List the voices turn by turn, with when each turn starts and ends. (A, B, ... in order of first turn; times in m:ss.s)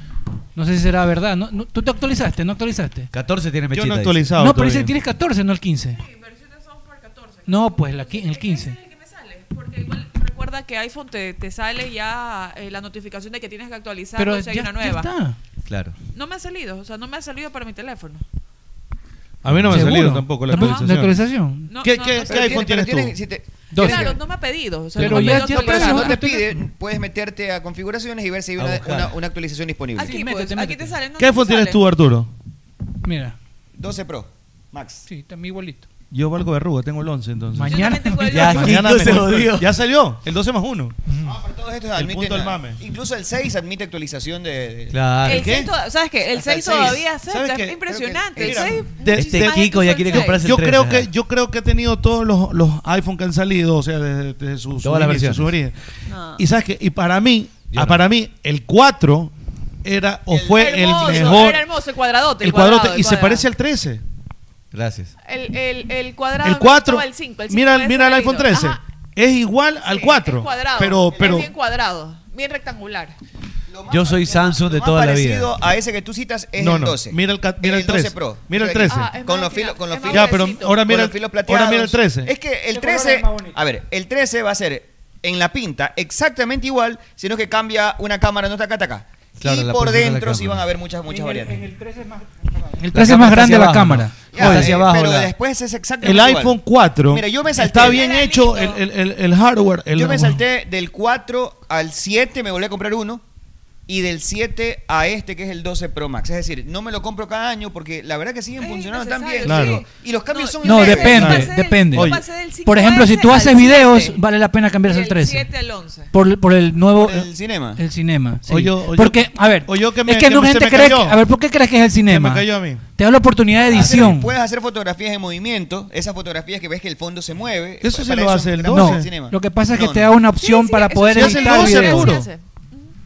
0:00.6-0:03.1 A
0:03.1-0:04.3 B
0:03.7-0:04.9 C
0:04.4-0:06.0 A
0:05.9-0:15.1 D
0:07.5-0:08.8 A
0:14.2-0:15.4 A
0:15.7-0:16.0 B
0:16.1-0:18.2 D
0:19.4-0:21.3 C
0:19.5-0:20.0 B
0:19.7-0:21.7 A
0:20.5-0:21.0 D
0:21.7-0:22.7 D
0:21.8-0:23.2 C
0:22.3-0:24.2 E
0:23.7-0:24.2 A
0:23.7-0:26.3 D
0:25.0-0:25.5 B
0:25.0-0:26.5 A
0:25.3-0:30.2 E
0:28.6-0:29.2 B
0:30.0-0:31.8 D
0:30.0-0:31.0 A
0:31.2-0:32.3 C
0:33.0-0:33.4 A
0:33.8-0:35.1 E
0:35.1-0:35.9 A
0:36.1-0:38.0 C
0:37.6-0:38.9 A
0:37.7-0:39.1 D
0:38.2-0:39.8 B
0:38.5-0:41.0 C
0:41.2-0:45.0 E
0:42.0-0:42.8 C
0:44.9-0:45.6 B
0:45.2-0:50.4 D
0:45.3-0:45.7 C
0:46.3-0:47.1 E
0:46.9-0:55.8 C
0:47.9-0:48.8 E
0:49.0-0:51.1 B
0:54.8-0:55.5 B
0:56.1-0:56.4 D
0:56.4-0:59.3 C
0:57.7-0:58.0 B
0:59.8-1:01.7 C
1:00.3-1:01.6 E
1:00.4-1:03.5 D
1:02.4-1:04.0 C
1:04.7-1:05.1 B
1:05.2-1:08.8 D
1:06.4-1:11.5 C
1:09.8-1:13.2 D
1:11.2-1:11.5 E
1:13.7-1:31.6 E
1:13.9-1:15.6 B
1:16.6-1:19.1 C
1:18.8-1:20.9 D
1:20.1-1:22.3 C
1:22.7-1:23.6 A
1:29.4-1:30.7 B
1:31.1-1:32.2 A
1:32.8-1:34.7 A
1:32.9-1:35.3 B
1:34.3-1:38.1 E
1:36.0-1:40.4 C
1:37.8-1:38.8 D
1:39.9-1:43.2 E
1:43.9-1:51.5 E
1:48.6-1:54.2 D
1:49.4-1:49.8 C
1:50.6-1:55.5 A
1:51.2-1:52.2 C
1:54.8-1:56.1 D
1:56.1-2:04.3 A
1:56.9-1:57.8 E
1:58.5-2:01.2 C
2:02.1-2:02.8 C
2:03.7-2:10.2 E
2:03.8-2:04.0 B
2:07.8-2:09.1 C
2:08.7-2:12.2 A
2:10.4-2:12.9 D
2:11.1-2:12.3 C